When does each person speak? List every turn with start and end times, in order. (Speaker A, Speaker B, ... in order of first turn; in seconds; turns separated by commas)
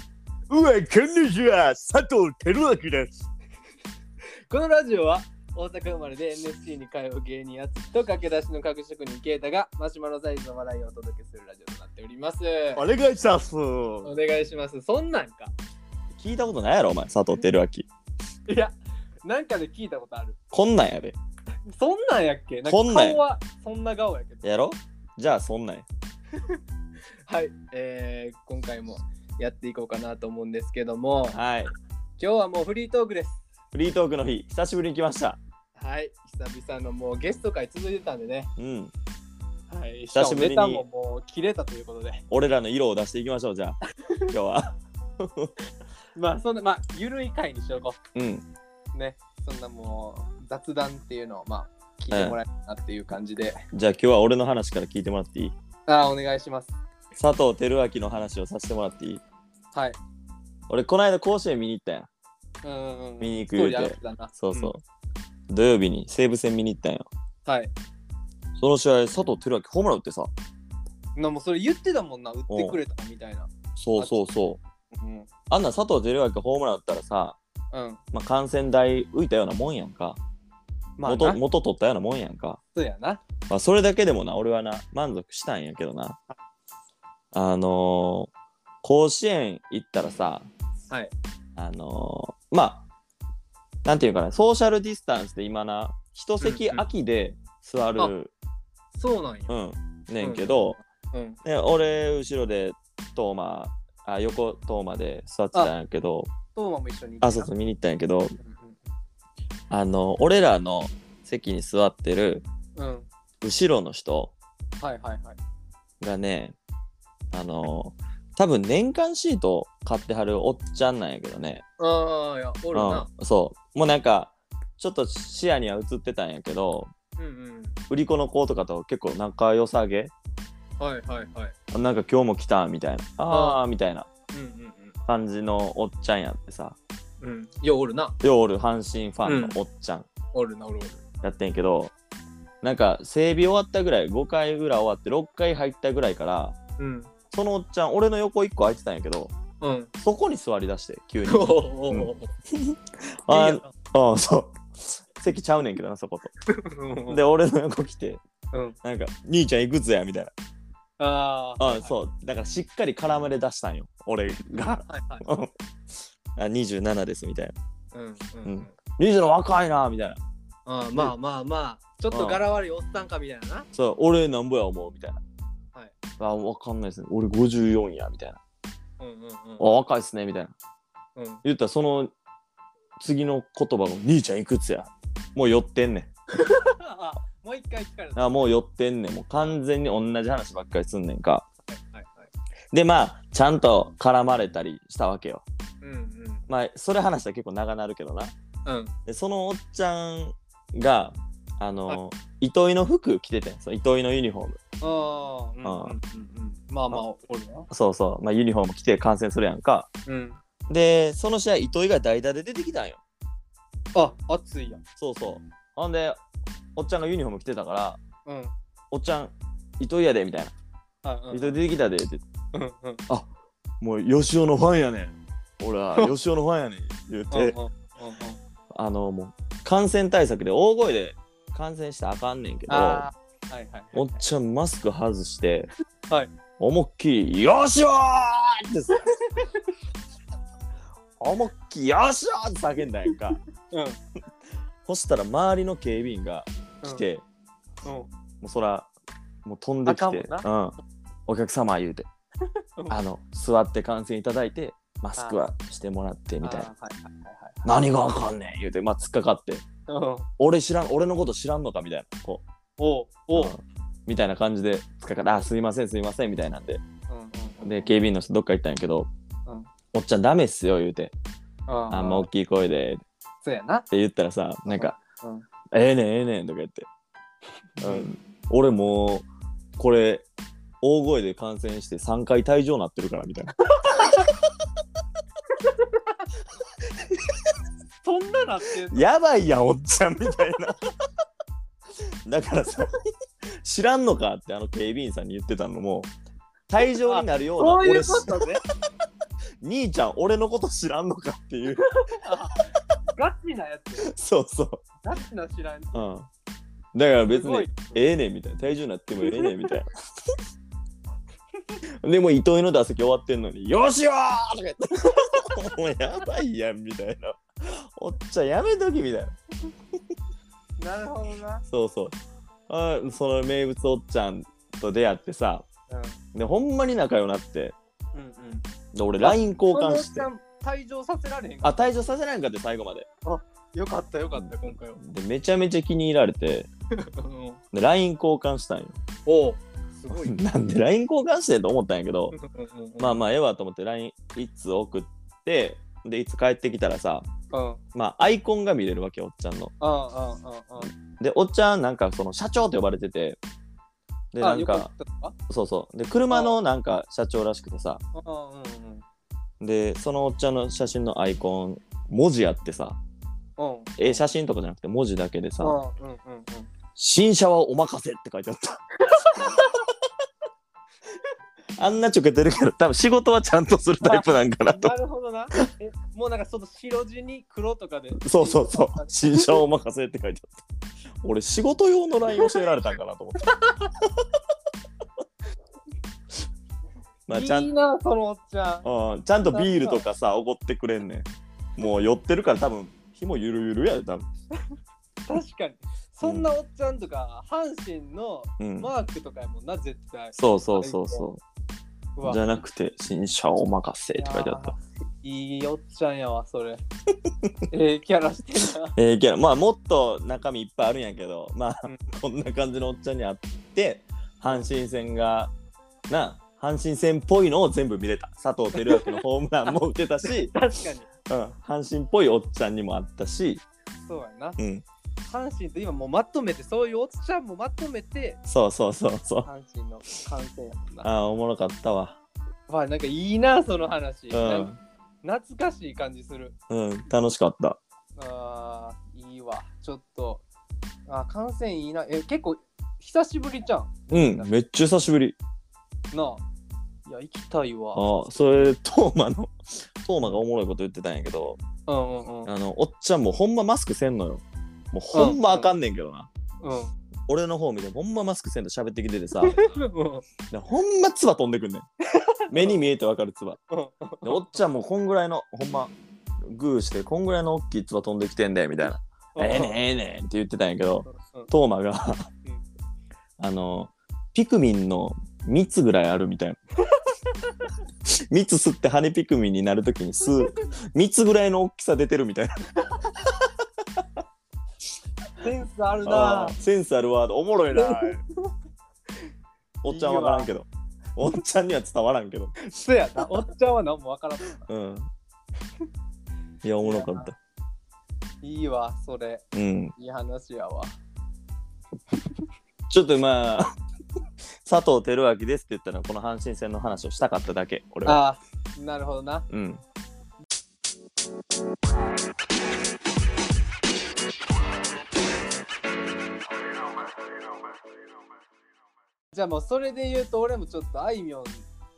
Speaker A: 0.5-3.3, Speaker B: 4.5-12.9, Speaker A: 12.8-14.1, Speaker B: 14.0-15.5, Speaker A: 16.1-17.9, Speaker B: 18.5-20.4, Speaker A: 20.5-21.2, Speaker B: 21.7-24.4, Speaker A: 22.7-23.2, Speaker A: 24.4-25.9, Speaker B: 27.3-31.4, Speaker A: 31.3-31.7, Speaker B: 32.2-33.4, Speaker A: 33.7-35.4, Speaker B: 35.8-38.5, Speaker A: 38.6-38.9, Speaker B: 39.7-42.2, Speaker A: 40.1-40.8, Speaker A: 42.3-43.8, Speaker B: 44.0-44.3, Speaker A: 44.3-45.5, Speaker B: 46.2-48.0, Speaker A: 48.1-48.5, Speaker B: 48.9-53.6, Speaker A: 52.1-52.4, Speaker A: 53.7-55.5, Speaker B: 55.9-56.8, Speaker A: 57.2-59.2, Speaker A: 60.7-62.1, Speaker B: 62.6-64.7, Speaker A: 63.2-64.8, Speaker A: 65.5-67.1, Speaker B: 67.5-67.7, Speaker A: 68.6-70.3, Speaker B: 71.2-74.2, Speaker A: 72.5-72.8, Speaker A: 73.8-74.6, Speaker B: 74.9-75.3, Speaker A: 75.5-77.4, Speaker B: 77.7-78.0, Speaker A: 78.1-80.2, Speaker B: 81.0-81.4, Speaker A: 81.1-82.6, Speaker B: 82.8-83.2, Speaker A: 83.5-86.2, Speaker A: 87.3-88.3, Speaker A: 88.8-90.5, Speaker A: 91.6-92.8, Speaker A: 93.8-98.3, Speaker B: 96.4-96.8, Speaker B: 99.0-99.5, Speaker A: 99.5-100.8, Speaker B: 100.2-101.4, Speaker A: 101.4-106.3, Speaker B: 106.5-107.5, Speaker A: 107.2-108.4, Speaker B: 108.4-108.8, Speaker A: 109.7-112.5, Speaker B: 112.8-113.1, Speaker A: 113.4-114.3, Speaker B: 114.8-115.4, Speaker A: 116.0-116.6, Speaker A: 117.3-121.6, Speaker B: 121.8-123.1, Speaker A: 122.7-126.9, Speaker B: 127.2-127.8, Speaker A: 127.9-130.1, Speaker B: 130.8-131.6, Speaker A: 131.7-134.1, Speaker B: 133.3-133.6, Speaker B: 134.3-134.9, Speaker A: 135.1-136.8, Speaker B: 137.2-138.2, Speaker A: 138.2-140.1, Speaker B: 139.2-139.6, Speaker B: 140.3-141.0, Speaker A: 141.2-141.9, Speaker A: 142.6-146.6, Speaker B: 146.8-147.1, Speaker A: 147.3-149.3, Speaker B: 149.6-149.9, Speaker A: 150.0-156.3, Speaker B: 151.3-152.3, Speaker B: 153.3-153.7, Speaker B: 156.5-157.2, Speaker A: 157.1-158.2, Speaker A: 158.8-160.3, Speaker B: 161.0-161.9, Speaker A: 161.6-165.5, Speaker B: 164.5-165.3, Speaker A: 166.4-167.6, Speaker B: 167.9-168.7, Speaker A: 168.4-170.2, Speaker B: 170.7-173.7, Speaker A: 172.1-172.4, Speaker A: 173.7-175.2, Speaker A: 176.2-178.4, Speaker B: 179.0-179.7, Speaker A: 179.6-180.5, Speaker B: 181.2-181.4, Speaker A: 181.4-182.1, Speaker A: 183.0-186.1, Speaker B: 186.3-188.5, Speaker A: 188.2-191.5, Speaker B: 191.7-192.3, Speaker A: 192.7-195.4, Speaker B: 195.8-196.4, Speaker A: 196.5-198.3, Speaker B: 198.7-198.9, Speaker A: 199.1-204.6, Speaker B: 204.8-207.7, Speaker A: 205.6-206.0, Speaker A: 207.7-209.9, Speaker B: 210.1-210.4, Speaker A: 210.7-213.0, Speaker B: 213.9-214.8, Speaker A: 215.0-216.2, Speaker A: 216.8-218.0, Speaker B: 218.3-218.5, Speaker A: 218.9-220.5, Speaker B: 221.1-221.6, Speaker A: 221.3-222.2, Speaker B: 222.5-223.0, Speaker A: 223.8-227.6, Speaker B: 227.3-228.4, Speaker A: 228.7-233.1, Speaker B: 232.7-234.2, Speaker A: 233.9-235.7, Speaker A: 236.6-239.1, Speaker B: 238.9-239.6, Speaker A: 241.2-243.4, Speaker B: 243.7-244.0, Speaker A: 244.8-247.2, Speaker A: 248.4-248.9, Speaker A: 249.4-250.8, Speaker B: 249.8-250.5, Speaker A: 251.3-252.1, Speaker A: 252.9-256.7, Speaker B: 256.4-257.7, Speaker A: 257.6-259.6, Speaker B: 259.9-260.3, Speaker A: 260.4-262.4, Speaker B: 262.8-263.6, Speaker A: 263.4-266.8, Speaker B: 267.1-267.9, Speaker A: 267.6-269.1, Speaker A: 269.9-271.1, Speaker B: 271.7-272.3, Speaker A: 271.9-273.0, Speaker B: 273.4-273.9, Speaker A: 273.9-274.9, Speaker B: 274.7-275.5, Speaker A: 275.7-276.9, Speaker B: 277.8-278.1, Speaker A: 277.8-279.3, Speaker A: 279.8-280.3, Speaker A: 280.8-284.1, Speaker B: 283.7-284.3, Speaker B: 285.6-286.2, Speaker B: 288.0-289.1, Speaker A: 288.9-290.8, Speaker A: 292.2-292.9, Speaker A: 293.6-296.1, Speaker A: 296.7-298.5, Speaker B: 297.0-298.6, Speaker A: 299.6-301.9, Speaker B: 302.0-304.1, Speaker A: 304.0-304.8, Speaker B: 305.0-306.1, Speaker A: 305.9-306.3, Speaker A: 306.9-309.9, Speaker B: 307.3-308.0, Speaker B: 309.2-309.6, Speaker A: 312.0-319.4, Speaker B: 320.8-321.6, Speaker A: 321.7-322.2, Speaker A: 322.7-325.7, Speaker B: 325.9-326.2, Speaker A: 326.3-327.8, Speaker B: 328.1-328.6, Speaker A: 328.9-330.3, Speaker B: 329.2-332.0, Speaker A: 331.6-333.1, Speaker B: 333.2-335.0, Speaker A: 334.3-336.7, Speaker B: 337.0-337.6, Speaker A: 337.7-339.0, Speaker B: 339.3-340.4, Speaker A: 340.1-342.4, Speaker B: 342.3-343.2, Speaker A: 343.0-347.3, Speaker B: 347.5-347.8, Speaker A: 347.9-349.7, Speaker B: 349.8-350.9, Speaker A: 350.8-353.4, Speaker A: 354.3-354.9, Speaker B: 354.4-355.4, Speaker A: 355.5-358.0, Speaker B: 356.3-356.6, Speaker B: 358.1-359.0, Speaker A: 359.6-363.0, Speaker B: 363.6-364.2, Speaker A: 364.0-365.8, Speaker B: 365.6-366.7, Speaker A: 367.0-368.8, Speaker B: 369.0-369.8, Speaker A: 369.3-369.7, Speaker A: 371.8-374.9, Speaker B: 374.0-379.6, Speaker A: 378.2-380.6, Speaker A: 381.2-383.4, Speaker B: 383.4-383.9, Speaker A: 387.3-387.7, Speaker B: 387.3-388.9, Speaker A: 388.8-394.3, Speaker B: 389.4-390.1, Speaker B: 395.3-401.3, Speaker A: 398.6-398.9, Speaker A: 400.4-401.4, Speaker B: 402.2-402.5, Speaker A: 402.2-404.7, Speaker B: 404.1-406.8, Speaker B: 407.7-409.0, Speaker A: 409.0-415.5, Speaker A: 416.1-420.5, Speaker B: 418.8-419.2, Speaker B: 420.2-421.1, Speaker A: 421.3-423.6, Speaker B: 424.1-424.6, Speaker A: 424.6-424.9, Speaker B: 425.2-428.4, Speaker A: 428.5-429.5, Speaker B: 429.4-431.1, Speaker A: 431.0-432.2, Speaker B: 432.7-434.7, Speaker A: 434.3-434.8, Speaker B: 435.2-436.6, Speaker A: 436.7-437.8, Speaker B: 438.2-440.4, Speaker B: 441.1-444.5, Speaker A: 444.1-445.4, Speaker B: 446.1-446.4, Speaker B: 447.1-448.8, Speaker A: 447.9-451.6, Speaker B: 451.9-452.5, Speaker A: 452.5-456.3, Speaker B: 455.1-455.7, Speaker B: 456.6-456.9, Speaker A: 457.3-459.6, Speaker B: 459.4-460.3, Speaker A: 460.5-461.9, Speaker B: 462.2-462.8, Speaker A: 462.5-463.6, Speaker B: 463.7-464.6, Speaker A: 464.2-472.3, Speaker B: 469.4-469.8, Speaker B: 471.1-471.5, Speaker A: 473.4-476.6, Speaker A: 478.1-482.6, Speaker B: 485.4-486.6, Speaker A: 486.1-488.2, Speaker B: 487.7-488.2, Speaker A: 489.8-492.5, Speaker B: 489.9-490.5, Speaker B: 492.6-494.7, Speaker A: 494.6-495.1, Speaker A: 496.6-497.4, Speaker B: 496.8-497.3, Speaker B: 498.4-499.4, Speaker A: 499.5-499.9, Speaker B: 500.0-500.9, Speaker A: 502.9-503.7, Speaker A: 504.6-508.2, Speaker B: 508.1-509.5, Speaker A: 509.5-509.8, Speaker B: 519.3-521.6